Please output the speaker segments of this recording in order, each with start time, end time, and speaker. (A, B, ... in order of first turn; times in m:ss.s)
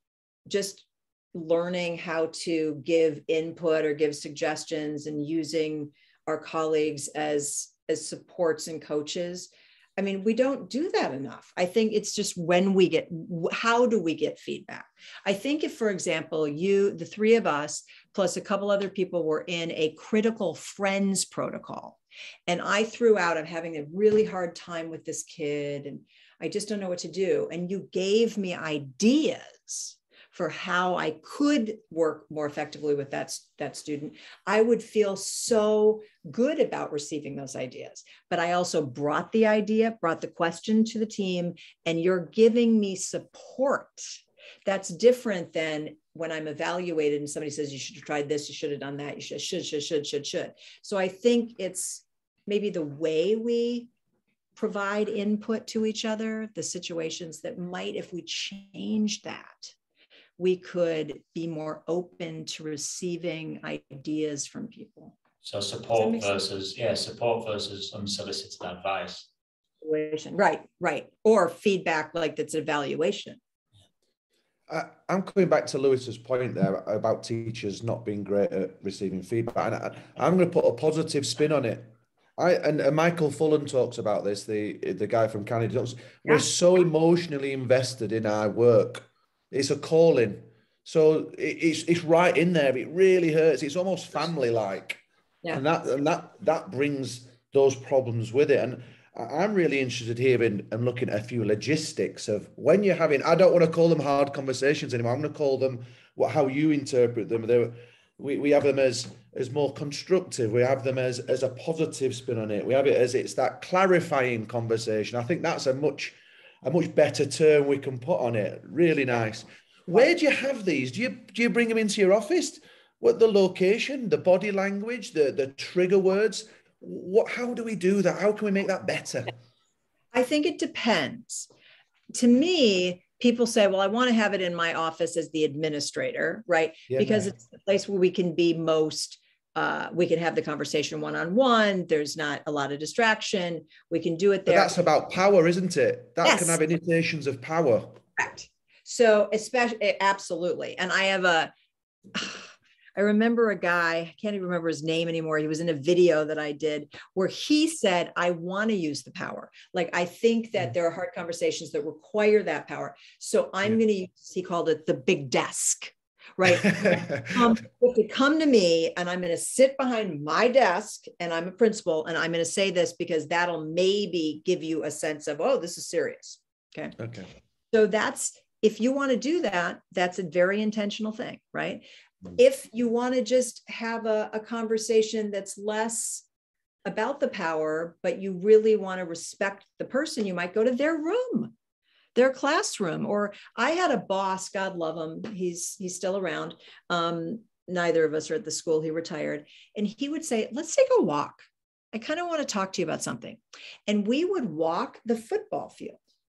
0:00.5-0:53.9 A
0:54.6-0:59.8 A
1:00.4-1:05.2 A
1:05.4-1:09.3 B
1:05.9-1:06.4 A
1:09.8-1:13.4 A
1:14.7-1:35.0 C
1:35.5-2:09.4 C
2:10.1-2:11.5 A
2:12.1-2:24.8 A
2:16.9-2:17.3 C
2:24.5-2:28.0 C
2:26.2-2:26.6 A
2:28.2-2:31.5 A
2:32.1-2:57.0 A
2:46.6-2:47.4 C
2:57.0-2:57.3 C
2:57.7-3:01.8 A
3:02.4-3:06.2 A
3:06.8-3:11.5 A
3:12.2-3:26.0 A